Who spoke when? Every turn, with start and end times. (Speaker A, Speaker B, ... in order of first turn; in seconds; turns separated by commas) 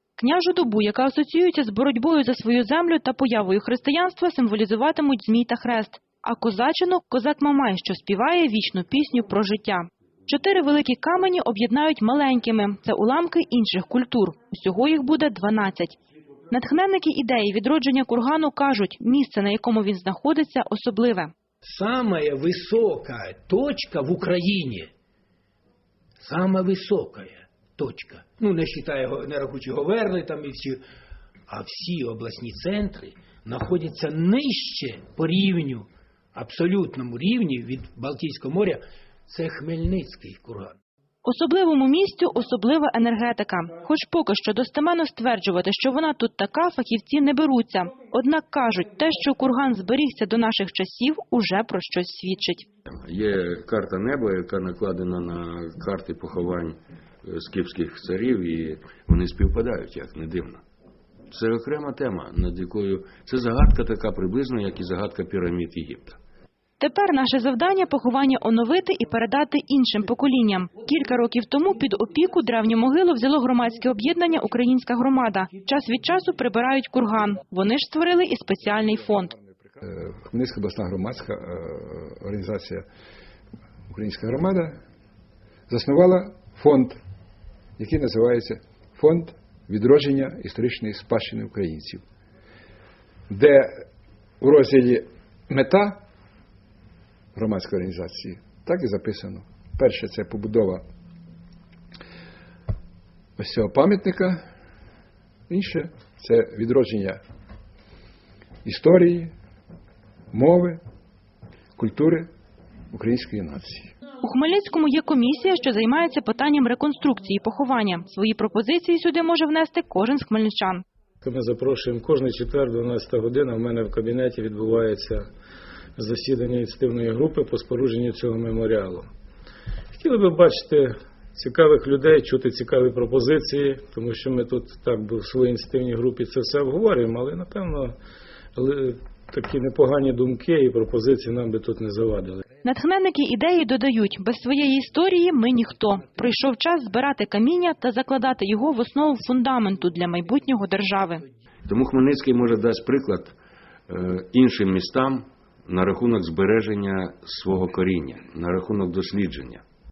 Speaker A: 0.2-15.9, Speaker A: 16.5-21.3, Speaker B: 21.6-24.9, Speaker B: 26.2-30.8, Speaker B: 31.5-40.8, Speaker A: 41.2-52.7, Speaker C: 52.9-60.6, Speaker C: 61.3-66.2, Speaker A: 66.8-79.3, Speaker D: 79.8-82.8, Speaker D: 83.9-84.7, Speaker D: 85.7-87.0, Speaker D: 87.8-92.0, Speaker D: 93.3-93.7, Speaker D: 94.4-96.0, Speaker D: 97.3-100.8, Speaker D: 103.4-104.4, Speaker D: 105.5-107.2, Speaker D: 108.6-109.3, Speaker D: 110.3-110.8, Speaker D: 111.8-112.3, Speaker D: 112.9-113.9, Speaker A: 114.2-120.8, Speaker E: 121.2-125.3, Speaker E: 126.0-129.1, Speaker E: 130.0-137.9, Speaker E: 138.6-142.4, Speaker A: 142.6-151.2, Speaker C: 151.7-153.3, Speaker C: 153.9-159.6